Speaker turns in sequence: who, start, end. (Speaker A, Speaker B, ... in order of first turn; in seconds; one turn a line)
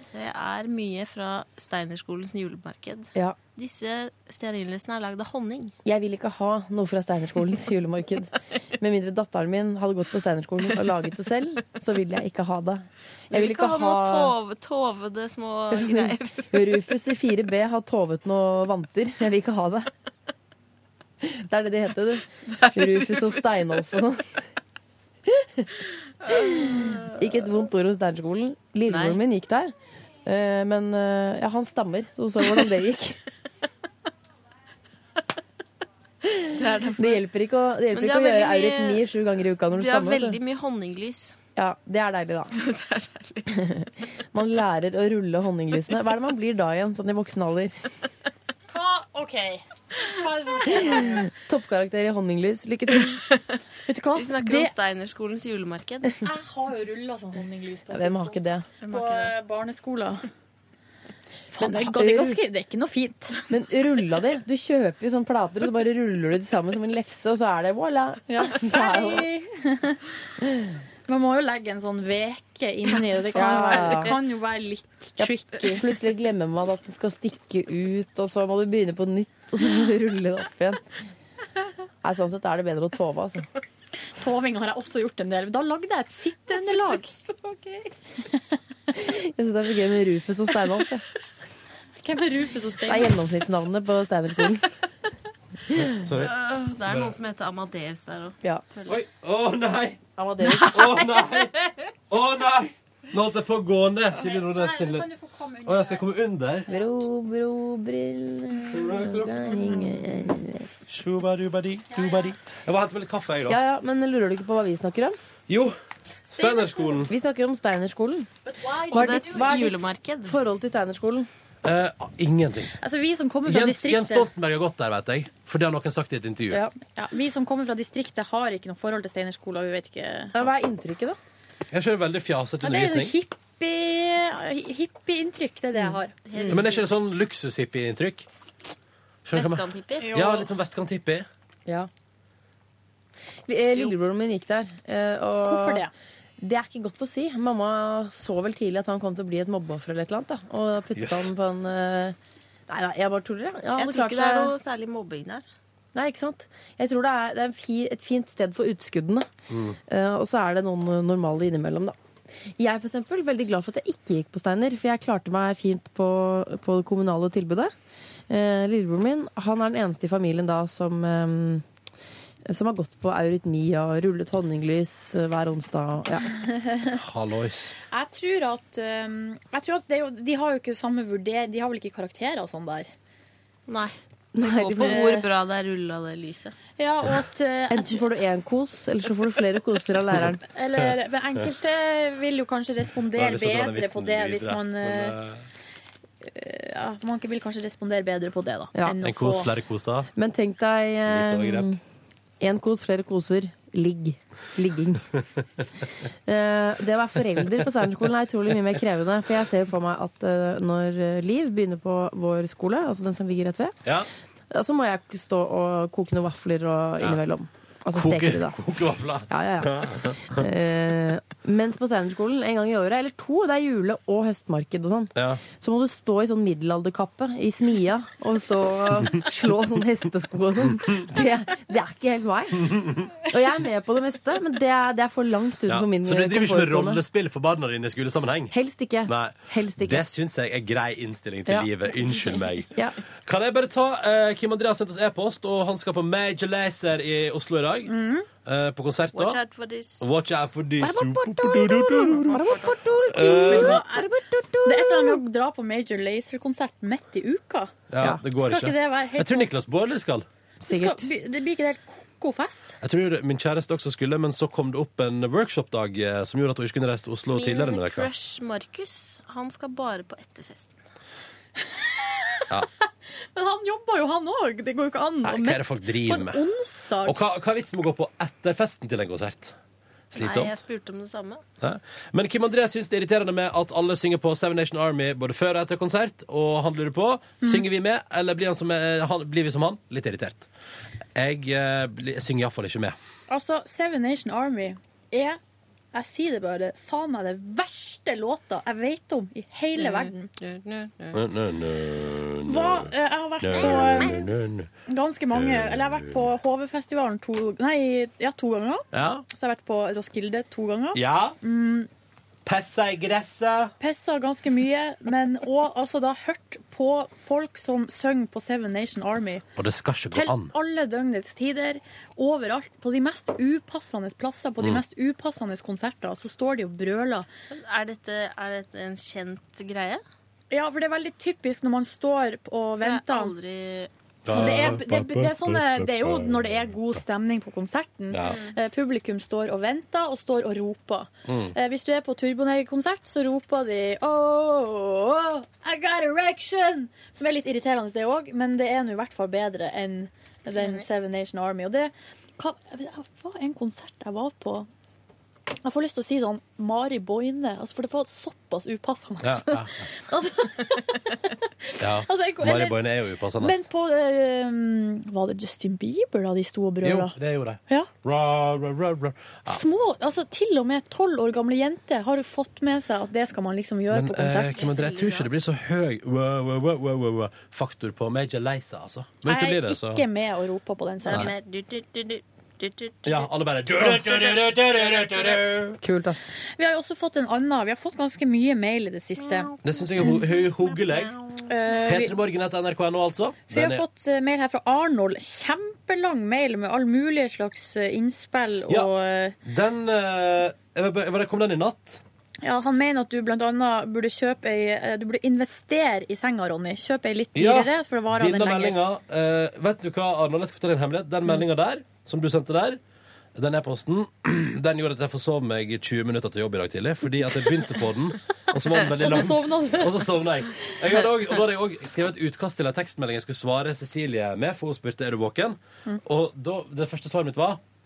Speaker A: 0.1-5.7
Speaker B: 5.8-14.3
Speaker A: 13.3-16.6
Speaker B: 15.7-19.9
Speaker B: 21.2-24.4
Speaker A: 22.6-23.3
Speaker B: 25.3-25.7
Speaker B: 26.3-29.7
Speaker A: 26.3-27.1
Speaker A: 28.9-29.2
Speaker B: 30.2-33.2
Speaker B: 36.2-40.4
Speaker A: 36.5-37.2
Speaker A: 37.9-39.0
Speaker A: 39.7-41.4
Speaker B: 41.5-42.6
Speaker A: 42.5-43.5
Speaker B: 43.5-47.8
Speaker C: 48.7-51.3
Speaker B: 50.7-53.2
Speaker C: 53.9-54.7
Speaker A: 54.1-56.2
Speaker C: 56.2-60.3
Speaker B: 57.9-58.7
Speaker A: 58.8-59.3
Speaker C: 61.5-63.4
Speaker B: 61.5-62.4
Speaker B: 63.5-69.3
Speaker C: 68.3-70.0
Speaker B: 70.4-70.7
Speaker C: 71.1-75.8
Speaker B: 73.3-74.2
Speaker B: 75.2-80.8
Speaker B: 82.0-83.5
Speaker C: 84.2-87.1
Speaker A: 86.5-87.9
Speaker B: 88.9-91.0
Speaker C: 92.0-93.2
Speaker B: 92.8-94.7
Speaker B: 95.7-96.0
Speaker D: 95.9-97.1
Speaker A: 96.2-99.0
Speaker D: 98.9-100.0
Speaker B: 100.2-101.0
Speaker D: 100.6-101.5
Speaker D: 102.1-105.1
Speaker C: 104.2-106.0
Speaker D: 105.7-106.7
Speaker B: 106.7-110.7
Speaker D: 108.7-109.8
Speaker D: 110.9-113.6
Speaker C: 111.9-112.3
Speaker B: 113.5-115.2
Speaker D: 115.5-115.8
Speaker D: 116.3-117.1
Speaker C: 116.3-117.0
Speaker B: 117.1-118.3
Speaker C: 118.4-119.5
Speaker A: 118.9-120.4
Speaker B: 118.9-121.3
Speaker D: 121.6-122.7
Speaker C: 122.8-124.3
Speaker D: 123.5-126.6
Speaker C: 126.8-130.4
Speaker B: 130.3-131.2
Speaker D: 131.7-133.1
Speaker C: 132.6-136.1
Speaker B: 135.7-136.6
Speaker A: 136.2-136.8
Speaker D: 136.5-138.3
Speaker D: 139.2-141.2
Speaker A: 139.3-140.1
Speaker C: 140.0-140.5
Speaker B: 143.5-145.9
Speaker C: 145.4-145.9
Speaker B: 146.4-152.2
Speaker D: 150.9-151.3
Speaker B: 152.7-154.6
Speaker A: 153.8-155.4
Speaker B: 155.9-159.3
Speaker D: 159.5-159.8
Speaker B: 159.9-167.7
Speaker B: 168.3-171.6
Speaker B: 172.4-176.3
Speaker C: 176.5-176.9
Speaker D: 177.0-177.7
Speaker C: 177.9-182.9
Speaker A: 183.7-186.6
Speaker B: 184.3-185.2
Speaker C: 184.8-185.2
Speaker C: 186.8-188.0
Speaker B: 187.7-190.4
Speaker C: 190.5-195.1
Speaker D: 193.1-195.4
Speaker C: 196.2-199.5
Speaker D: 199.0-200.1
Speaker B: 200.1-201.8
Speaker D: 201.1-201.7
Speaker B: 202.4-205.1
Speaker B: 206.2-213.7
Speaker B: 214.5-218.6
Speaker D: 217.9-220.2
Speaker B: 219.3-237.0
Speaker D: 225.2-225.4
Speaker D: 232.7-233.0
Speaker D: 235.7-238.5
Speaker B: 238.5-240.0
Speaker D: 239.1-242.7
Speaker D: 243.2-247.9
Speaker C: 247.9-248.2
Speaker D: 248.4-249.4
Speaker A: 249.1-250.1
Speaker D: 250.0-252.4
Speaker B: 250.8-255.2
Speaker D: 253.1-253.8
Speaker C: 253.4-254.1
Speaker C: 254.6-257.7
Speaker D: 257.9-260.2
Speaker C: 258.4-259.5
Speaker B: 260.6-261.1
Speaker C: 260.6-262.8
Speaker D: 262.8-268.1
Speaker A: 267.3-270.8
Speaker C: 271.8-272.4
Speaker C: 273.3-277.2
Speaker D: 275.2-276.4
Speaker D: 277.0-279.5
Speaker D: 280.1-280.5
Speaker A: 280.1-281.4
Speaker D: 281.6-290.5
Speaker D: 291.1-292.9
Speaker C: 293.3-295.4
Speaker C: 295.9-300.3
Speaker A: 299.8-301.2
Speaker D: 301.1-304.7
Speaker C: 302.5-304.1
Speaker A: 303.6-304.3
Speaker C: 304.9-311.9
Speaker D: 305.3-306.3
Speaker D: 308.9-309.2
Speaker D: 310.9-311.4
Speaker D: 312.4-313.7
Speaker C: 313.8-319.4
Speaker D: 319.6-320.5
Speaker C: 320.1-327.3
Speaker A: 327.5-330.0
Speaker C: 330.5-333.3
Speaker A: 332.8-333.9
Speaker D: 334.2-336.5
Speaker C: 334.3-354.7
Speaker D: 338.1-338.4
Speaker A: 338.2-338.5
Speaker D: 341.3-341.5
Speaker A: 350.5-350.9
Speaker C: 355.6-362.8
Speaker D: 359.2-359.8
Speaker D: 361.8-363.7
Speaker C: 363.4-367.1
Speaker D: 366.8-369.6
Speaker C: 369.5-374.7
Speaker D: 373.9-380.0
Speaker A: 374.6-375.3
Speaker C: 379.2-381.3
Speaker A: 381.1-383.3
Speaker D: 383.0-385.8
Speaker B: 385.8-386.3
Speaker C: 386.6-389.5
Speaker D: 389.6-391.2
Speaker C: 391.5-392.2
Speaker D: 391.9-393.8
Speaker C: 393.5-399.3
Speaker D: 399.4-402.0
Speaker C: 402.4-408.8
Speaker D: 407.3-412.8
Speaker D: 413.3-427.6
Speaker C: 419.0-420.0